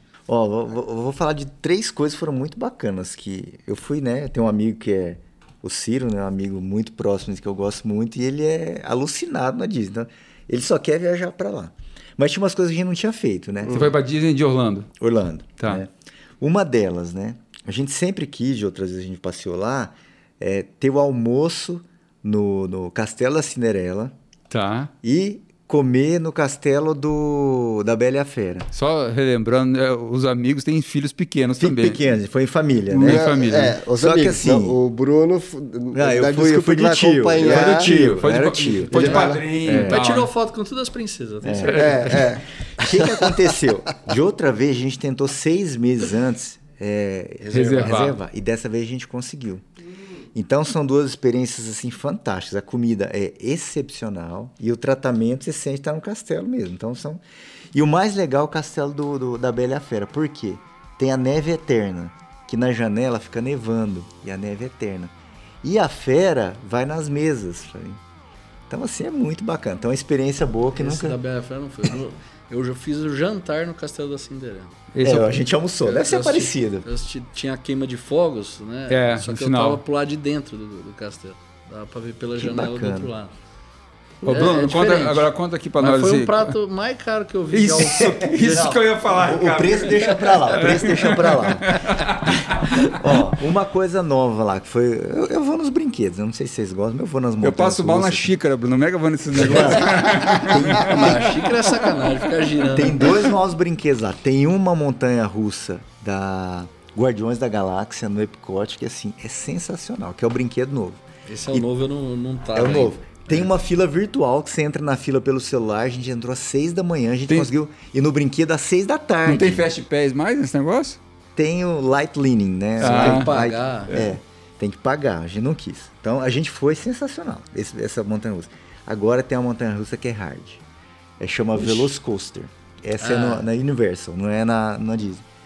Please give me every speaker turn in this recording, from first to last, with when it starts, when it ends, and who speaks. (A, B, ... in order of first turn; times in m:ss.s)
0:00.3-0:13.9 A
0:13.7-0:14.9 B
0:15.0-0:24.1 A
0:24.5-0:24.9 B
0:25.0-0:28.7 A
0:28.7-0:32.0 B
0:31.6-0:34.8 A
0:32.9-0:37.9 C
0:33.0-0:33.8 B
0:35.9-0:40.0 A
0:37.4-0:40.3 B
0:38.9-0:39.4 C
0:39.7-0:42.2 D
0:41.4-0:49.6 A
0:41.6-0:43.5 C
0:41.8-0:42.2 B
0:47.5-0:48.2 B
0:50.3-0:57.2 A
0:57.7-1:05.1 A
1:05.6-1:08.0 A
1:08.7-1:11.2 A
1:10.8-1:14.8 D
1:14.9-1:15.4 B
1:15.0-1:16.9 A
1:15.8-1:23.3 D
1:18.9-1:19.8 B
1:22.4-1:23.1 A
1:24.2-1:26.5 B
1:24.2-1:25.3 D
1:25.8-1:28.7 D
1:27.5-1:33.2 B
1:27.8-1:32.4 A
1:32.9-1:38.3 A
1:37.4-1:41.3 B
1:39.3-1:41.7 A
1:40.8-1:43.0 D
1:42.7-1:51.7 A
1:51.3-1:53.5 D
1:52.5-1:59.7 A
1:59.3-2:01.0 B
2:01.4-2:10.6 A
2:02.8-2:03.3 B
2:02.8-2:03.9 D
2:11.2-2:15.2 A
2:13.0-2:13.5 D